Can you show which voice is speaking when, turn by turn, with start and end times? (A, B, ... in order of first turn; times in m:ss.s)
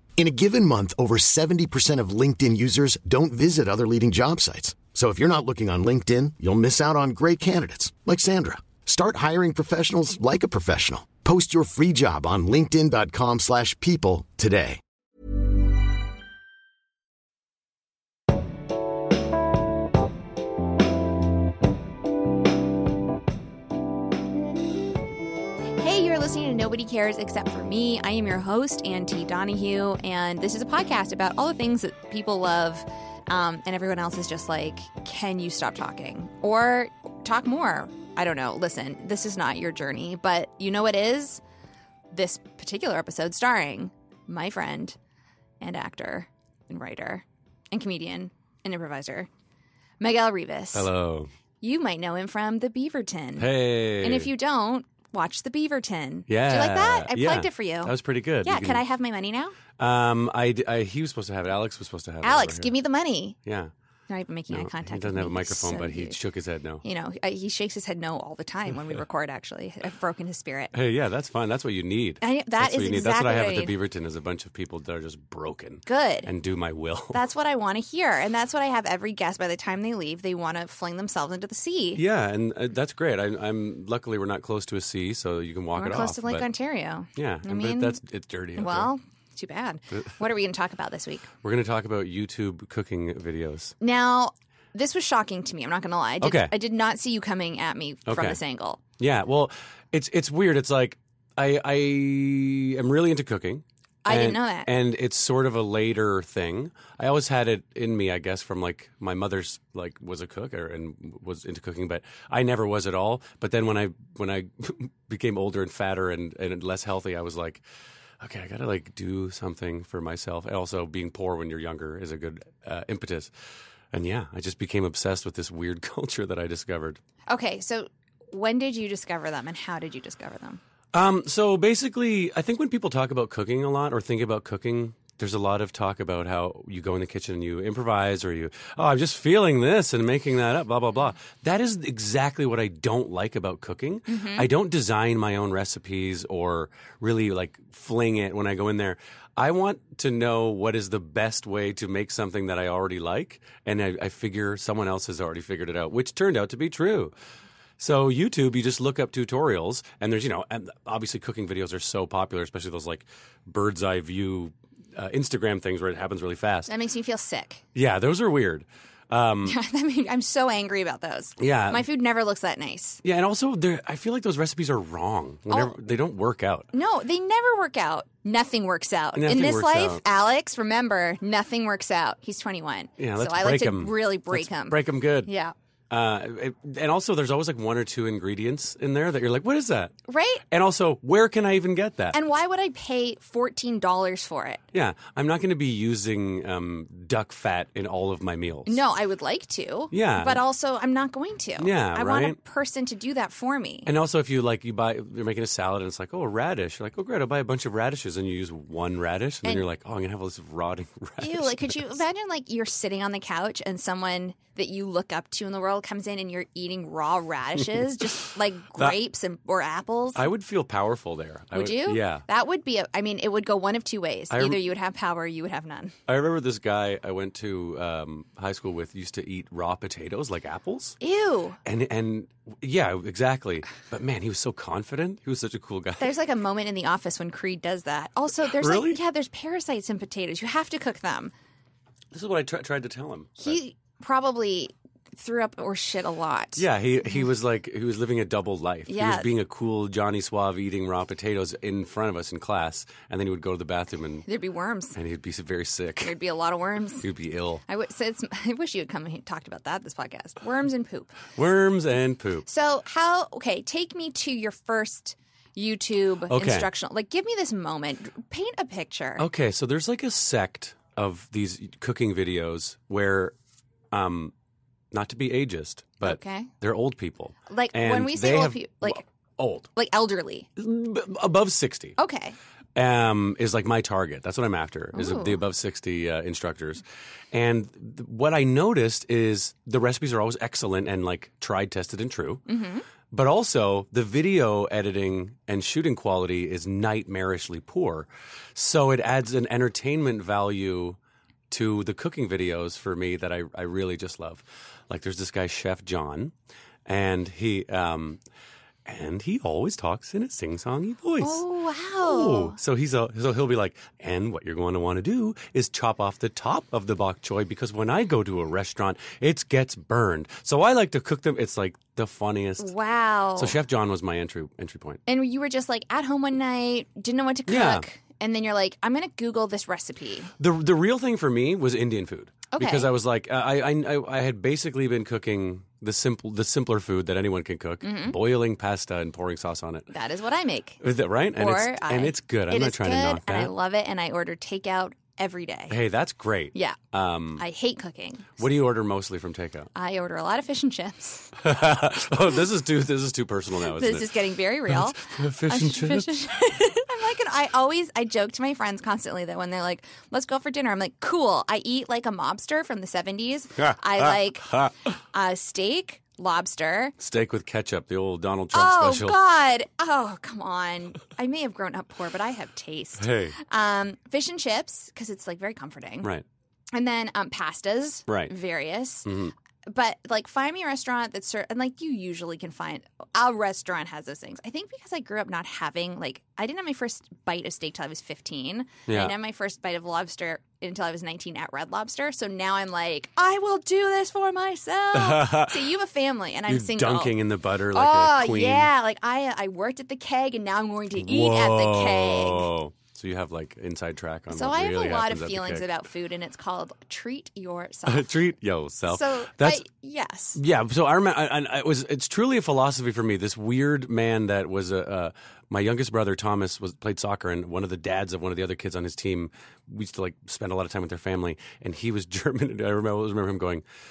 0:00.2-0:14.8 A
0:25.8-0:41.4 B
0:42.1-0:45.0 B
0:45.6-0:49.3 B
0:50.0-0:50.9 B
0:50.7-0:51.3 C
0:51.6-0:53.5 B
0:53.4-0:54.3 C
0:54.0-0:59.6 B
0:56.3-0:58.8 C
0:59.8-1:02.7 C
1:02.2-1:03.4 B
1:03.4-1:03.7 C
1:04.1-1:06.2 B
1:04.5-1:06.8 C
1:06.8-1:10.7 B
1:10.7-1:17.2 C
1:12.2-1:13.7 B
1:15.8-1:16.3 B
1:17.1-1:22.0 B
1:21.9-1:26.4 C
1:25.8-1:28.0 B
1:27.2-1:28.9 C
1:28.6-1:31.3 B
1:31.4-1:33.7 C
1:33.8-1:38.8 B
1:36.2-1:36.5 C
1:38.1-1:38.4 C
1:39.0-1:57.6 C
1:44.0-1:44.7 B
1:58.2-2:03.3 C
2:03.9-2:07.0 C
2:07.3-2:10.6 B
2:10.9-2:37.1 C
2:24.1-2:24.5 B
2:37.8-2:46.7 C
2:46.7-2:47.6 B
2:47.7-2:49.6 C
2:49.4-2:53.0 B
2:51.4-2:51.8 C
2:53.0-2:56.7 C
2:55.5-2:55.7 B
2:56.7-3:05.5 B
2:59.1-3:00.0 C
3:03.0-3:05.3 C
3:05.9-3:09.9 C
3:10.1-3:10.4 B
3:10.5-3:12.2 C
3:12.1-3:14.6 B
3:14.7-3:18.8 C
3:18.7-3:23.9 B
3:19.9-3:20.4 C
3:21.6-3:22.4 C
3:23.8-3:32.0 C
3:31.2-3:40.2 B
3:37.8-3:38.0 C
3:40.1-3:42.2 C
3:41.5-3:45.9 B
3:44.3-3:44.6 C
3:46.1-3:51.0 C
3:51.0-3:51.6 B
3:51.6-3:56.2 C
3:56.0-4:01.3 B
3:58.4-3:59.0 C
4:02.1-4:03.6 C
4:03.4-4:07.2 B
4:06.6-4:14.2 C
4:08.9-4:09.3 B
4:14.2-4:15.0 B
4:14.9-4:16.2 C
4:16.0-4:17.0 B
4:17.0-4:17.6 C
4:17.7-4:21.2 B
4:21.3-4:22.4 C
4:22.5-4:29.2 B
4:26.3-4:26.7 C
4:29.2-4:33.3 C
4:33.9-4:34.3 C
4:34.9-4:39.7 C
4:36.0-4:36.5 B
4:37.5-4:39.0 B
4:39.8-4:40.5 B
4:40.6-4:42.0 C
4:42.0-4:42.4 B
4:42.8-4:52.4 C
4:44.9-4:45.4 B
4:52.5-4:52.8 B
4:53.1-5:01.0 C
5:01.5-5:06.3 C
5:06.8-5:08.2 C
5:08.8-5:11.4 C
5:11.2-5:12.6 B
5:12.0-5:22.7 C
5:22.6-5:23.6 B
5:23.4-5:25.0 C
5:25.1-5:30.3 B
5:27.5-5:27.8 C
5:30.4-5:39.9 C
5:32.5-5:32.9 B
5:37.8-5:38.2 B
5:39.9-5:40.8 B
5:40.8-5:43.5 C
5:41.4-5:45.8 B
5:45.7-5:47.4 C
5:46.5-5:46.8 B
5:47.4-5:48.4 B
5:48.4-5:49.7 C
5:49.7-5:51.3 B
5:51.4-5:56.1 C
5:53.7-6:04.5 B
6:03.6-6:04.7 C
6:05.1-6:07.0 B
6:07.0-6:09.2 C
6:08.5-6:16.1 B
6:13.0-6:13.4 C
6:16.7-6:19.1 B
6:18.1-6:18.3 C
6:19.0-6:19.3 C
6:19.7-6:37.2 B
6:28.9-6:29.1 C
6:34.9-6:35.7 C
6:36.5-6:38.7 C
6:37.7-6:42.5 B
6:41.0-6:45.7 C
6:44.3-6:48.1 B
6:47.9-6:49.6 C
6:48.9-6:50.4 B
6:50.3-7:03.6 C